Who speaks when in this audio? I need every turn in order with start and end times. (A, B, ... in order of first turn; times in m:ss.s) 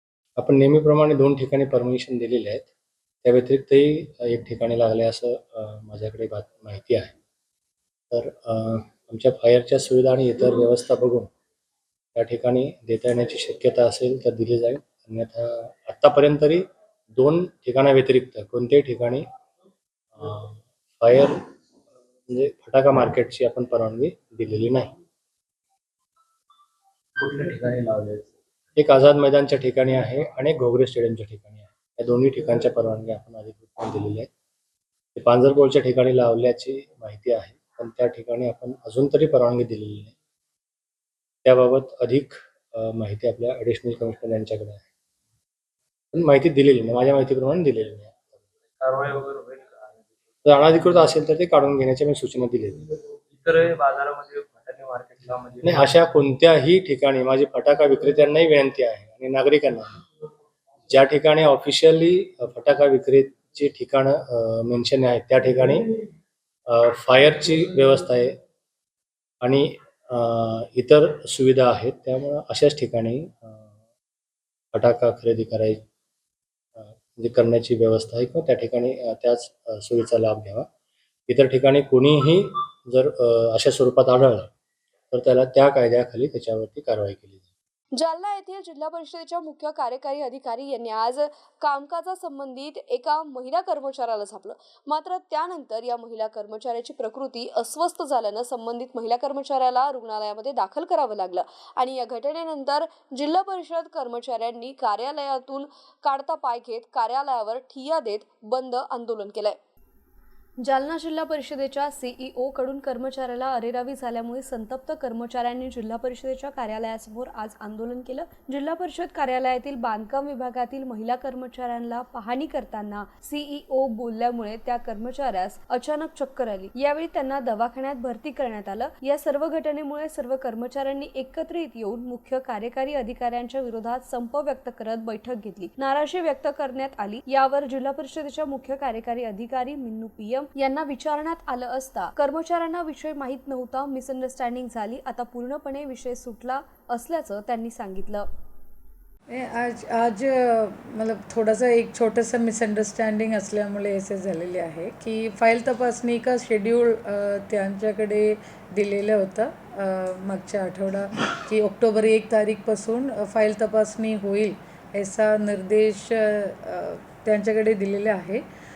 0:00.4-0:02.7 A
0:03.2-0:07.1 A
0:08.1-0:11.3 A
0:12.1-0:19.2 A
0:20.2-0:21.4 A
0:22.3-0:24.9 A
0:28.8-0:34.3 A
0:35.2-0:40.1 A
0:41.4-0:44.8 A
0:46.1-0:48.2 A
0:48.8-0:49.7 B
0:50.4-0:52.8 A
0:53.4-0:55.8 B
0:55.6-1:00.0 A
1:00.9-1:05.8 A
1:06.7-1:08.4 A
1:09.4-1:13.6 A
1:14.7-1:15.8 A
1:16.8-1:20.7 A
1:21.3-1:24.5 A
1:25.1-1:27.4 A
1:28.0-1:49.6 C
1:50.6-2:28.3 C
2:29.3-2:48.4 D